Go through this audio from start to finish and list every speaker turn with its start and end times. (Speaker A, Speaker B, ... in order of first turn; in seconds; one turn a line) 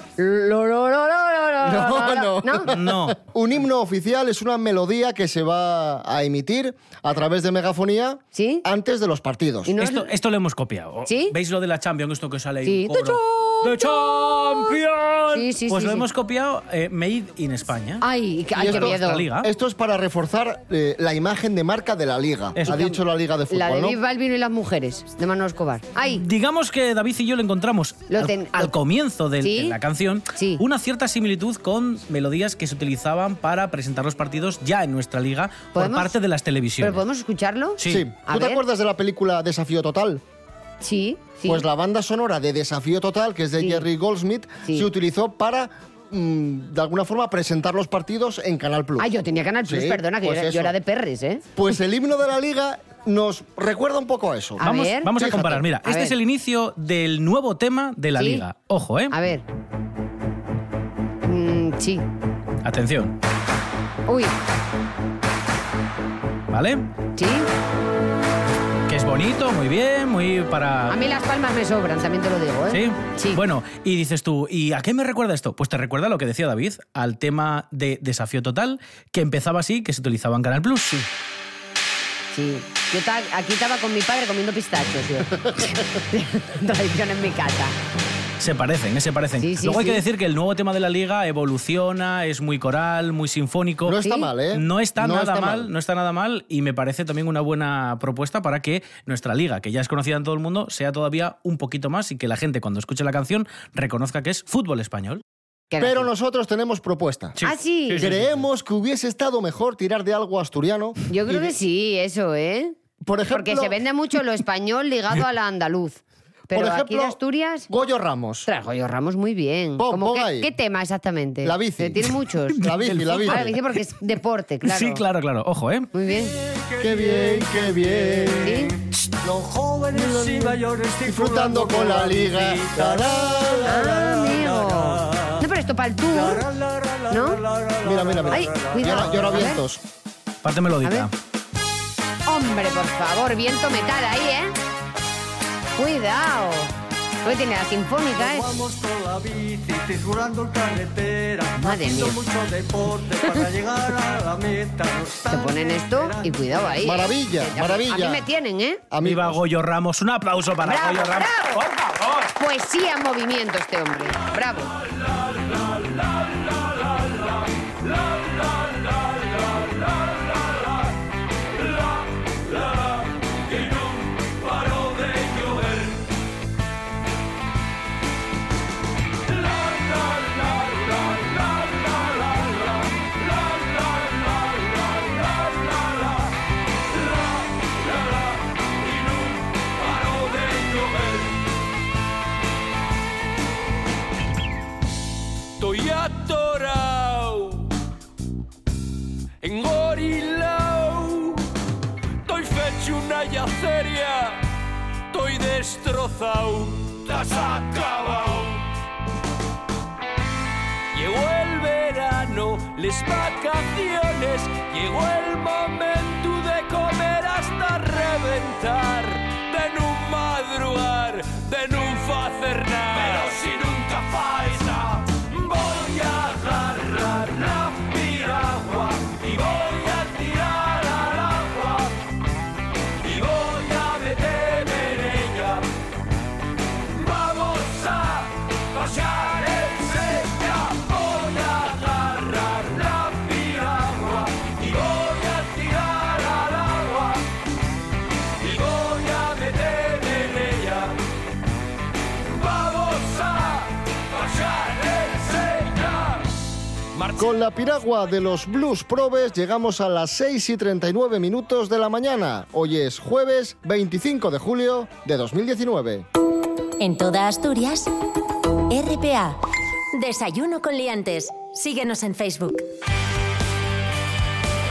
Speaker A: 0.2-2.7
Speaker B: 1.6-9.8
Speaker C: 2.7-3.2
Speaker A: 8.3-8.6
Speaker A: 9.7-10.1
Speaker C: 9.8-19.5
Speaker A: 11.1-11.3
Speaker A: 12.6-13.9
Speaker A: 15.3-16.1
Speaker A: 18.0-19.3
Speaker B: 18.6-24.0
Speaker C: 22.6-22.8
Speaker A: 22.7-23.0
Speaker A: 23.5-26.2
Speaker C: 26.1-37.0
Speaker A: 28.1-28.7
Speaker A: 29.4-29.8
Speaker A: 30.3-30.6
Speaker A: 35.8-36.1
Speaker A: 36.8-38.6
Speaker C: 37.8-38.1
Speaker B: 37.9-40.2
Speaker A: 40.8-41.6
Speaker B: 41.4-49.1
Speaker A: 43.6-43.8
Speaker A: 49.0-51.4
Speaker B: 49.6-50.8
Speaker B: 51.6-55.6
Speaker A: 54.6-55.1
Speaker C: 54.6-59.1
Speaker A: 55.8-56.1
Speaker A: 58.1-58.4
Speaker A: 59.1-59.4
Speaker A: 61.2-62.0
Speaker C: 62.6-63.1
Speaker A: 64.1-64.3
Speaker C: 66.5-66.8
Speaker A: 67.2-67.5
Speaker C: 68.9-71.0
Speaker A: 70.9-73.4
Speaker C: 72.7-81.1
Speaker A: 82.3-87.8
Speaker B: 85.4-85.8
Speaker C: 88.4-105.2
Speaker A: 89.4-90.0
Speaker B: 93.8-95.7
Speaker A: 94.0-94.3
Speaker A: 105.7-106.1
Speaker B: 105.8-107.4
Speaker C: 107.4-108.4
Speaker A: 107.4-108.0
Speaker B: 108.0-111.5
Speaker A: 111.1-112.8
Speaker B: 113.0-113.8
Speaker A: 113.3-117.7
Speaker B: 116.5-117.2
Speaker B: 117.7-118.5
Speaker A: 118.5-122.6
Speaker B: 119.8-120.5
Speaker B: 121.4-123.6
Speaker C: 122.6-123.5
Speaker A: 123.3-125.0
Speaker C: 124.6-125.9
Speaker A: 125.9-126.3
Speaker D: 126.1-135.5
Speaker B: 126.8-128.7
Speaker A: 128.4-128.7
Speaker B: 129.9-133.9
Speaker A: 133.6-136.4
Speaker D: 136.1-139.5
Speaker A: 137.1-137.4
Speaker B: 137.8-139.8
Speaker A: 138.3-139.6
Speaker C: 140.4-141.1
Speaker A: 140.8-141.1
Speaker A: 142.2-144.5
Speaker A: 145.8-146.7
Speaker A: 147.2-148.5
Speaker D: 148.1-156.9
Speaker A: 151.6-152.2
Speaker A: 155.3-158.8
Speaker B: 156.8-158.3
Speaker B: 158.9-159.4
Speaker C: 159.0-162.3
Speaker A: 160.6-161.6
Speaker A: 162.3-164.7
Speaker E: 166.5-167.0
Speaker E: 168.0-170.6
Speaker E: 172.3-176.0
Speaker E: 179.4-186.2
Speaker E: 187.6-188.2
Speaker E: 188.8-191.3
Speaker E: 195.6-197.7
Speaker E: 199.4-201.4
Speaker E: 202.3-204.4
Speaker E: 205.1-208.6
Speaker E: 210.9-231.9
Speaker E: 233.0-235.6
Speaker E: 237.0-247.2
Speaker E: 248.4-251.0
Speaker E: 252.3-256.2
Speaker B: 257.2-266.1
Speaker F: 266.8-267.9
Speaker F: 268.7-269.4
Speaker F: 269.9-272.7